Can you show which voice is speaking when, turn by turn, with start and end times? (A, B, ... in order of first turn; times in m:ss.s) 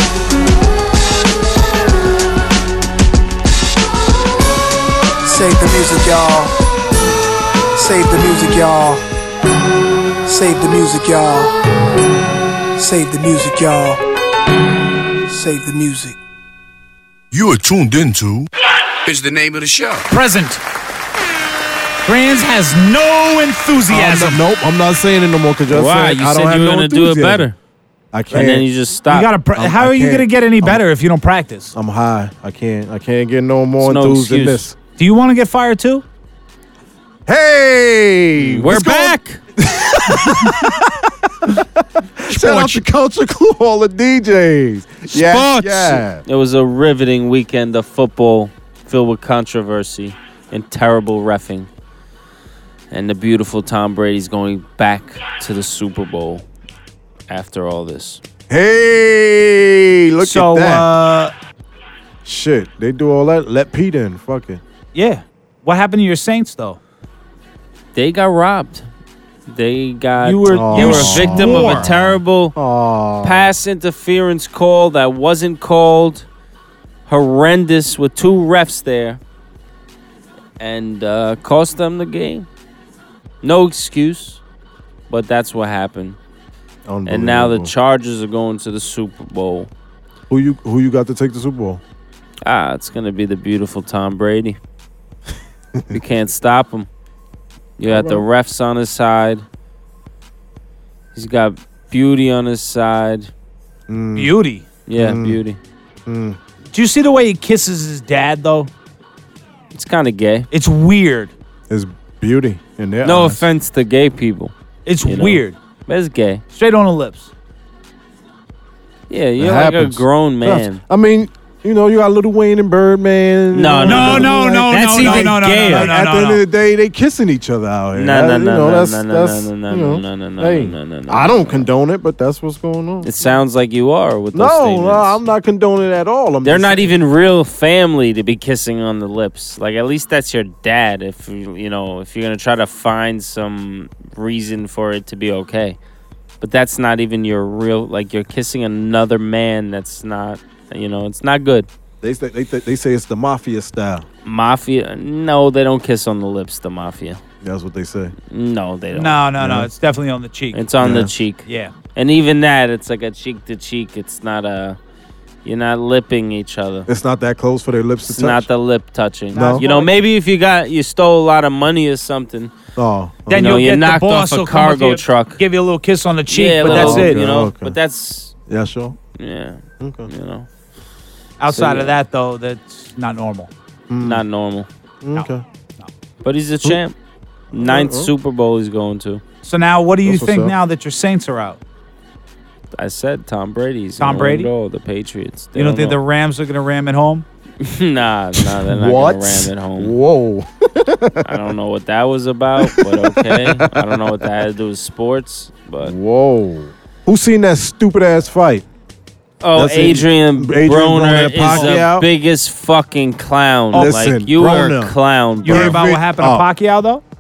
0:05.2-0:06.6 A
0:07.8-0:09.0 A
0:10.2-0:11.6 A
0:12.8-0:14.0 A
0:15.3-0:16.2 A
0:17.3-0:18.5 B
0:19.0-0:20.0 B
0:20.1-0:20.6 C
0:22.0-0:24.4 C
0:23.9-0:27.5 D
0:25.7-0:27.6 E
0:28.1-0:28.7 D
0:28.3-0:29.3 E
0:29.1-0:31.7 C
0:29.6-0:30.8 D
0:31.7-0:34.8 D
0:33.8-0:34.7 E
0:35.0-0:36.0 C
0:37.3-0:40.8 D
0:38.4-0:39.4 E
0:41.5-0:46.2 D
0:42.4-0:42.8 C
0:45.1-0:46.0 C
0:46.2-0:51.7 E
0:52.9-0:56.4 E
0:57.3-0:58.2 E
0:58.5-1:00.9 D
1:00.2-1:01.3 C
1:02.2-1:04.6 D
1:04.9-1:06.8 C
1:07.9-1:08.9 E
1:09.5-1:12.6 E
1:10.2-1:11.9 C
1:10.5-1:13.5 D
1:13.2-1:16.3 E
1:17.1-1:19.2 E
1:20.6-1:22.5 E
1:23.4-1:24.4 E
1:25.1-1:26.2 E
1:26.9-1:27.7 D
1:27.1-1:29.7 E
1:30.3-1:31.8 D
1:32.4-1:34.6 E
1:35.9-1:36.9 E
1:37.8-1:39.4 E
1:37.9-1:38.2 D
1:41.1-1:43.3 E
1:43.9-1:44.3 D
1:44.2-1:44.7 C
1:44.9-1:45.6 E
1:45.0-1:45.4 D
1:46.1-1:46.4 D
1:46.7-1:48.7 C
1:49.7-1:50.5 E
1:50.5-1:51.3 C
1:51.7-1:53.4 D
1:53.0-1:54.5 E
1:54.9-1:55.6 C
1:55.0-1:56.4 E
1:56.5-1:57.3 C
1:59.1-2:00.8 E
1:59.4-2:13.1 D
2:03.5-2:05.9 E
2:03.8-2:06.4 C
2:07.9-2:11.7 E
2:13.0-2:15.2 E
2:14.3-2:16.9 D
2:16.4-2:25.8 E
2:26.4-2:31.7 E
2:32.0-2:34.1 D
2:34.2-2:37.2 E
2:37.4-2:38.1 D
2:38.3-2:39.2 E
2:38.9-2:40.6 C
2:39.4-2:39.7 D
2:40.5-2:44.8 E
2:40.8-2:41.1 D
2:41.5-2:41.7 C
2:45.4-2:46.9 E
2:46.9-2:48.5 D
2:48.1-2:52.5 E
2:49.3-2:49.6 D
2:49.4-2:50.0 C
2:52.8-2:53.6 D
2:53.3-2:57.2 C
2:53.3-2:55.4 E
2:56.3-2:58.3 E
2:56.6-2:57.8 D
2:58.5-2:59.0 D
2:59.2-3:00.5 E
2:59.8-3:00.1 D
3:01.4-3:03.5 C
3:01.5-3:02.0 E
3:03.9-3:04.2 D
3:04.0-3:04.7 E
3:05.0-3:05.4 D
3:05.2-3:05.9 C
3:06.2-3:07.0 E
3:07.5-3:08.1 D
3:07.5-3:09.2 E
3:09.4-3:11.6 C
3:10.0-3:10.6 D
3:12.8-3:16.0 E
3:14.0-3:14.5 C
3:15.6-3:17.3 C
3:17.6-3:20.0 E
3:18.4-3:21.4 D
3:21.2-3:26.0 E
3:22.6-3:24.0 D
3:25.8-3:28.6 D
3:29.4-3:35.8 E
3:29.5-3:32.1 D
3:31.5-3:31.8 C
3:33.7-3:36.5 D
3:35.4-3:37.0 C